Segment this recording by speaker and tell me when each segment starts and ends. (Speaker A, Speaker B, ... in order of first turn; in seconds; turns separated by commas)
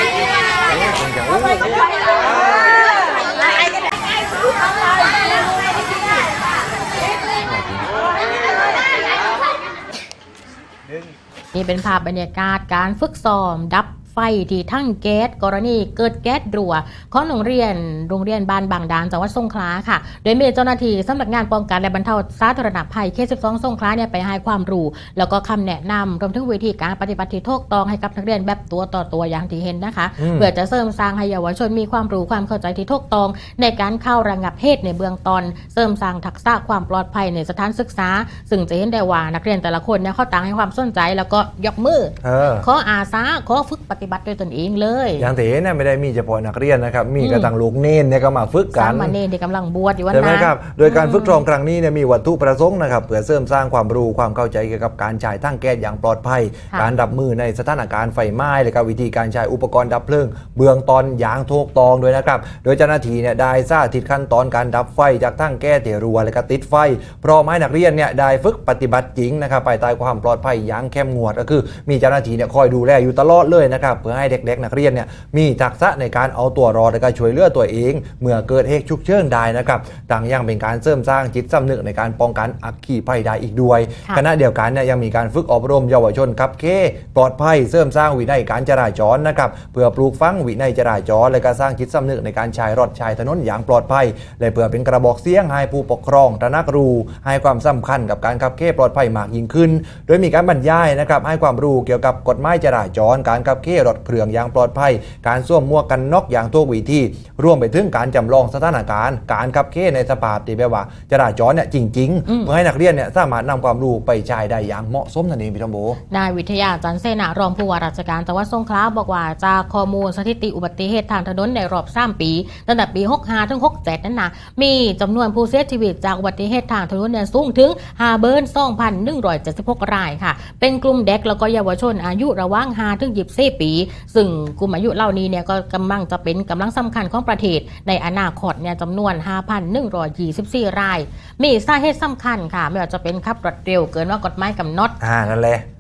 Speaker A: 0.7-1.8, Speaker A: 7.4-7.9, Speaker B: 11.5-45.3, Speaker A: 30.2-30.5, Speaker A: 42.2-42.6, Speaker A: 45.2-49.2, Speaker B: 47.2-47.5, Speaker B: 48.7-51.4, Speaker A: 50.1-116.0, Speaker B: 116.1-144.9, Speaker A: 145.0-145.6